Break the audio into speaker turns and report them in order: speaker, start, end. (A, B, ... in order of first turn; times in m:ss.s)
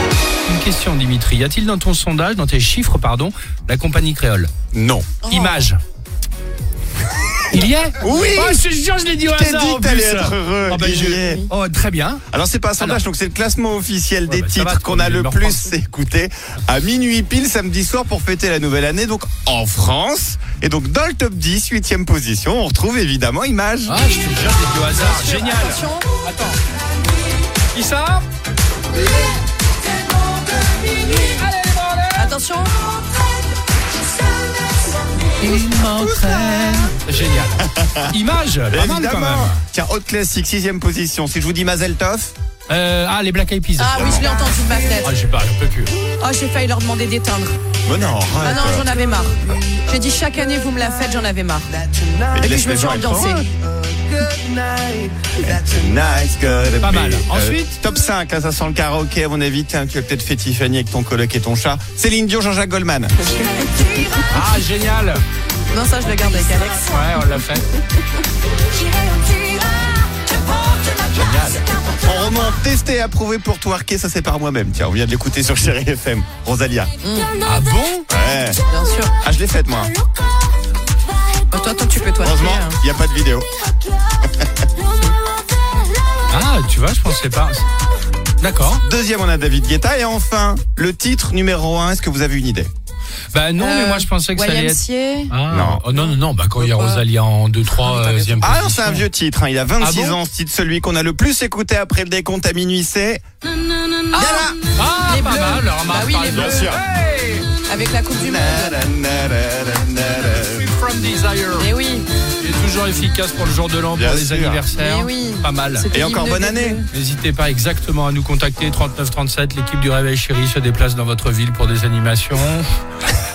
0:00.4-0:04.5 A
0:04.7-0:05.2 B
0:05.2-0:05.8 A
0:07.5-0:12.2 A
0:08.0-0:08.6 B
0:09.3-0:11.5 B
0:12.3-0:24.0 B
0:14.2-0:15.7 A
0:23.9-0:26.6 A
0:24.9-0:26.1 C
0:27.7-0:28.2 A
0:30.6-0:32.3 A
0:32.2-0:32.8 C
0:35.4-0:39.6 A
0:37.6-0:38.1 B
0:38.7-0:42.3 B
0:42.7-0:44.4 A
0:43.8-0:45.1 C
0:43.9-0:44.3 B
0:45.0-0:45.9 A
0:46.1-0:47.6 C
0:47.8-0:49.0 B
0:48.4-0:51.7 C
0:52.3-0:53.5 B
0:52.4-0:53.4 C
0:54.2-1:03.2 B
0:56.8-0:57.8 A
1:03.6-1:04.0 C
1:04.2-1:05.2 A
1:05.7-1:06.9 C
1:06.9-1:07.7 A
1:11.1-1:16.9 B
1:17.0-1:17.3 C
1:17.4-1:18.0 A
1:18.1-1:18.6 B
1:18.7-1:19.1 C
1:19.2-1:19.9 B
1:21.5-1:22.8 C
1:22.2-1:23.5 B
1:26.3-1:27.6 A
1:28.4-1:28.8 A
1:28.8-1:32.7 B
1:33.3-1:39.0 A
1:33.6-1:35.3 C
1:35.5-1:35.8 B
1:36.6-1:37.0 C
1:37.7-1:38.4 C
1:38.4-1:43.2 B
1:39.8-1:40.2 A
1:44.1-1:44.5 C
1:44.1-1:44.6 B
1:44.7-1:47.5 A
1:45.0-1:46.6 C
1:46.3-1:46.8 B
1:47.7-1:48.8 C
1:48.2-1:50.7 B
1:50.4-1:51.7 A
1:51.6-1:52.1 C
1:52.4-1:55.8 A
1:53.9-1:54.6 B
1:54.8-1:56.8 C
1:55.9-1:56.8 B
1:56.9-2:03.2 A